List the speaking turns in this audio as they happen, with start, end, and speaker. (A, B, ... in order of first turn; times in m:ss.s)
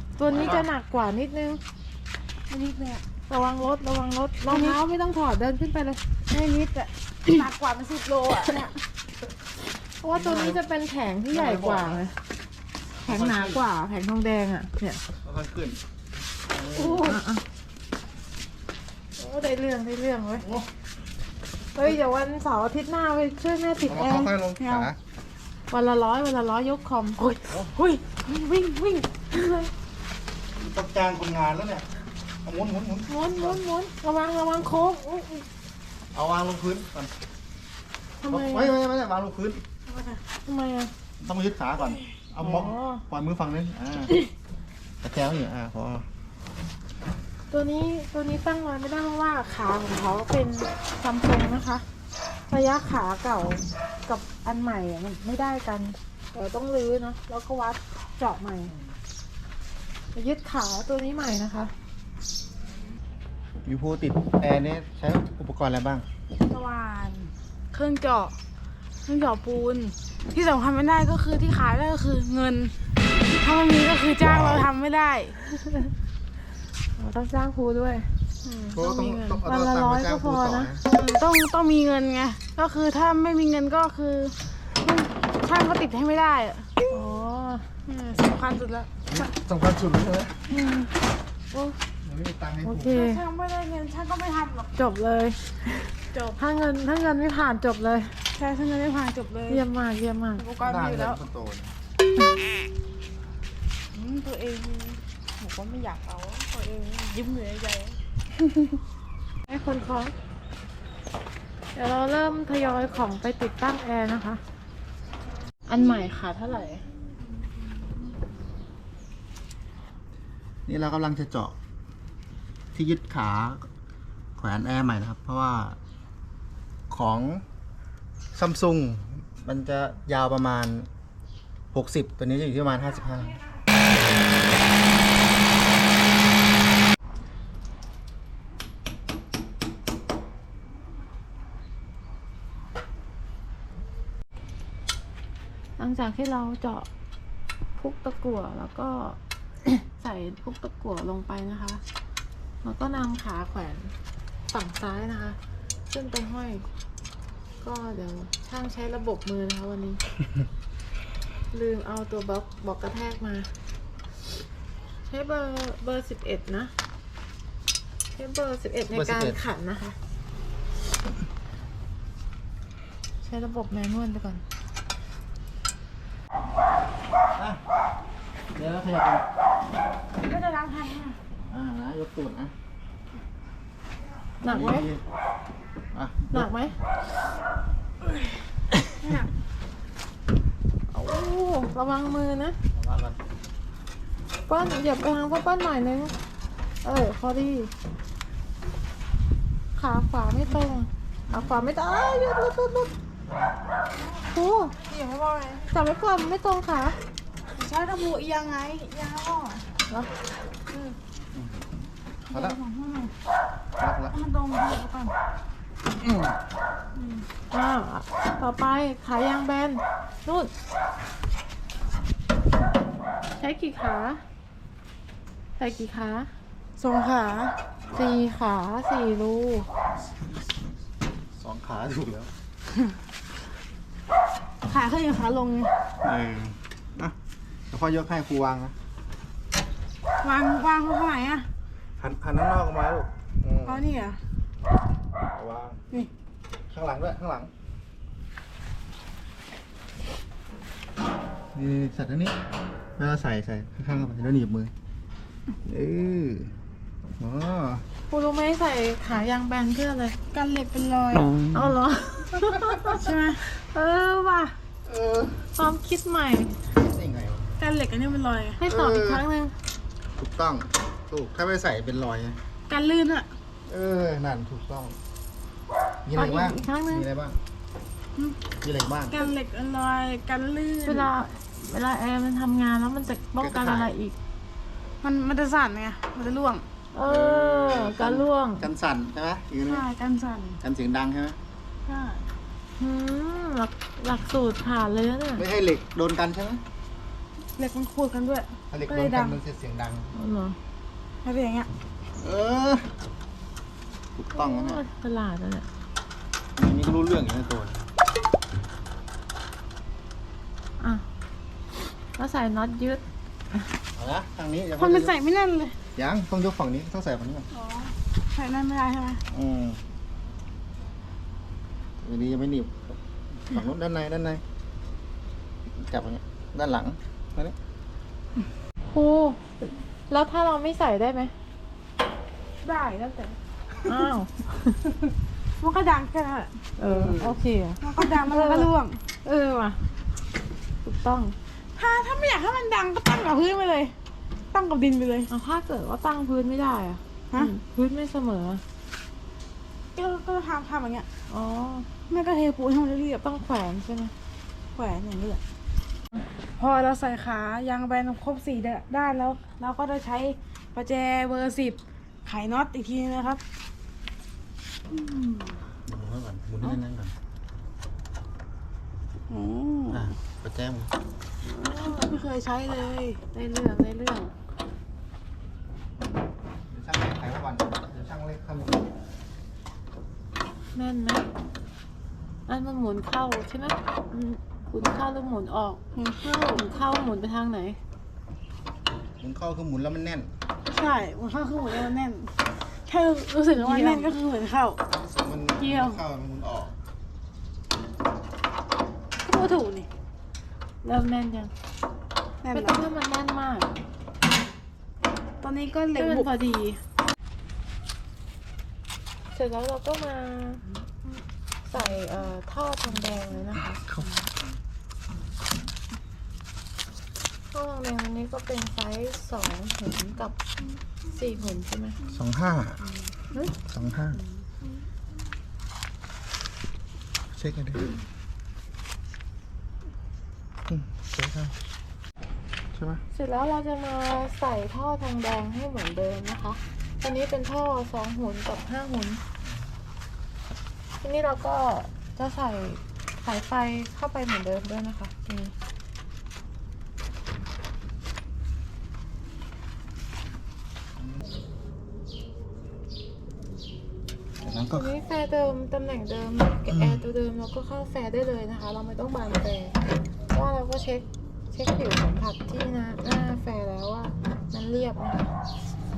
0:00.2-0:01.6 A
0:00.2-0:00.7 B
0:02.5-0:03.0 C
0:03.3-0:06.0 A
0:04.5-0:04.8 C
0:06.3-0:08.8 C
0:10.0-0:12.1 A
0:10.1-0:10.6 B
0:11.3-0:12.0 B
0:13.0-0:13.6 B
0:13.0-0:15.0 A
0:15.2-0:15.8 B
0:16.5-0:17.2 B
0:16.6-0:17.4 A
0:19.2-0:20.4 A
0:20.4-0:20.7 B
0:21.8-0:24.3 A
0:23.8-0:25.0 B
0:24.6-0:24.9 C
0:25.7-0:27.2 A
0:27.2-0:29.1 C
0:29.4-0:29.7 A
0:30.6-0:31.8 B
0:32.4-0:33.6 B
0:33.1-0:35.4 A
0:36.1-0:37.1 B
0:38.2-0:38.8 A
0:38.3-0:39.6 B
0:39.9-0:40.2 C
0:40.4-0:40.9 A
0:41.2-0:44.2 B
0:42.4-0:43.0 A
0:45.0-0:46.1 B
0:47.5-0:51.8 A
0:52.5-0:58.8 A
1:00.1-1:01.7 A
1:03.6-1:06.1 B
1:06.4-1:08.4 C
1:09.0-1:12.8 C
1:13.3-1:15.4 C
1:14.2-1:14.7 B
1:15.5-1:15.9 A
1:17.0-1:18.1 A
1:18.4-1:18.7 C
1:18.7-1:20.7 A
1:18.8-1:20.8 B
1:20.9-1:26.7 C
1:26.9-1:27.8 A
1:27.8-1:28.9 C
1:29.1-1:30.5 B
1:30.5-1:30.9 A
1:31.5-1:31.8 A
1:32.0-1:33.0 B
1:32.6-1:33.2 A
1:32.9-1:34.7 C
1:34.7-1:38.2 A
1:36.1-1:36.4 C
1:38.4-1:39.6 C
1:39.5-1:40.5 A
1:40.4-1:41.2 C
1:40.6-1:41.7 B
1:43.9-1:48.0 C
1:49.5-1:50.1 A
1:51.7-1:54.4 A
1:55.7-1:56.8 A
2:00.7-2:01.6 B
2:02.7-2:03.7 B
2:04.4-2:05.8 B
2:06.9-2:07.4 B
2:08.3-2:10.9 B
2:11.7-2:13.4 B
2:25.8-2:26.9 A
2:27.8-2:31.8 A
2:32.6-2:33.9 A
2:34.5-2:35.4 A
2:35.9-2:36.7 A
2:37.6-2:40.0 A
2:41.5-2:43.5 A
2:45.1-2:46.7 A
2:48.2-2:50.0 A
2:48.9-2:49.4 B
2:53.2-2:54.4 A
2:57.3-2:57.6 B
2:58.5-2:59.2 B
3:00.2-3:01.2 C
3:01.4-3:02.5 B
3:04.4-3:04.9 A
3:04.4-3:05.0 B
3:05.9-3:06.5 B
3:06.3-3:06.8 A
3:09.0-3:09.3 C
3:10.9-3:12.6 A
3:12.7-3:13.2 B
3:14.5-3:16.1 A
3:16.8-3:17.7 A
3:19.8-3:22.9 A
3:21.3-3:21.6 B
3:24.3-3:24.9 A
3:24.9-3:25.6 C
3:25.5-3:27.0 A
3:27.5-3:29.7 C
3:29.9-3:30.2 A
3:30.7-3:31.0 C
3:31.3-3:32.6 B
3:32.2-3:33.1 C
3:33.8-3:34.2 B
3:34.1-3:35.1 C
3:36.0-3:36.4 B
3:37.0-3:37.2 C
3:37.5-3:40.5 A
3:43.3-3:44.2 A
3:45.6-3:46.3 A
3:46.8-3:47.6 C
3:47.9-3:49.7 A
3:51.4-3:52.3 B
3:54.6-3:55.7 C
3:56.0-3:57.2 B
3:57.7-3:58.7 B
4:00.2-4:01.5 C
4:02.0-4:03.8 B
4:03.6-4:04.2 C
4:05.3-4:05.8 B
4:06.7-4:07.5 B
4:11.5-4:12.4 B
4:13.0-4:14.7 B
4:15.6-4:16.5 B
4:17.2-4:17.8 B
4:18.1-4:20.2 A
4:20.3-4:21.4 C
4:21.5-4:24.5 A
4:22.9-4:23.4 C
4:24.9-4:25.5 B
4:25.5-4:26.6 A
4:26.7-4:27.5 B
4:27.6-4:28.6 C
4:28.6-4:29.5 A
4:28.6-4:29.2 B
4:30.2-4:32.4 B
4:32.7-4:33.3 C
4:33.7-4:35.0 B
4:36.0-4:37.4 B
4:36.1-4:37.1 A
4:38.6-4:39.2 B
4:39.1-4:41.1 C
4:40.8-4:44.2 A
4:43.4-4:44.0 B
4:45.0-4:46.6 C
4:46.9-4:48.7 A
4:47.0-4:49.9 B
4:49.6-4:50.6 C
4:50.6-4:51.4 B
4:51.9-4:52.2 C
4:52.8-4:55.5 A
4:55.4-4:56.6 B
4:57.6-4:59.4 C
4:58.7-5:00.1 B
5:00.1-5:00.6 A
5:01.2-5:01.7 C
5:02.2-5:02.9 B
5:04.2-5:04.8 B
5:04.4-5:05.7 A
5:06.6-5:07.9 B
5:12.2-5:13.0 A
5:14.0-5:15.1 B
5:14.8-5:15.8 C
5:16.0-5:17.5 B
5:17.5-5:19.2 C
5:19.3-5:19.8 B
5:22.0-5:24.4 B
5:25.8-5:27.5 B
5:28.9-5:29.4 A
5:30.1-5:31.3 A
5:32.6-5:34.1 C
5:33.8-5:34.9 A
5:35.6-5:36.6 C
5:36.8-5:38.7 A
5:36.8-5:37.4 B
5:37.8-5:39.0 C
5:39.2-5:39.8 A
5:40.8-5:41.4 A
5:41.8-5:43.9 C
5:44.5-5:45.3 C
5:45.3-5:48.6 A
5:50.0-5:51.1 C
5:51.3-5:51.9 A
5:52.1-5:53.2 C
5:53.2-5:54.1 A
5:54.8-5:55.4 C
5:56.6-6:03.4 C
6:04.9-6:05.6 C
6:05.9-6:07.1 B
6:09.3-6:10.1 C
6:09.9-6:10.9 B
6:11.6-6:13.2 C
6:11.6-6:12.2 A
6:13.3-6:14.3 A
6:16.7-6:18.8 B
6:20.7-6:21.2 A
6:22.5-6:25.8 A
6:26.0-6:26.7 C
6:26.5-6:27.8 A
6:29.2-6:30.3 B
6:30.7-6:34.8 C
6:33.6-6:34.2 A
6:35.0-6:36.8 B
6:35.6-6:36.0 A
6:39.2-6:39.9 C
6:40.8-6:41.5 A
6:42.4-6:42.8 C
6:42.5-6:43.7 A
6:45.4-6:46.8 C
6:46.0-6:46.6 A
6:49.3-6:50.6 A
6:51.6-6:53.8 A
6:57.5-7:00.4 A
7:01.1-7:02.0 A
7:02.1-7:02.8 B
7:03.7-7:04.2 B
7:07.3-7:07.9 B
7:10.7-7:11.6 B
7:12.7-7:13.0 B
7:13.1-7:19.2 A
7:21.0-7:25.5 A
7:34.4-7:34.9 B
7:34.8-7:39.8 A
7:36.7-7:37.0 B
7:40.3-7:45.3 A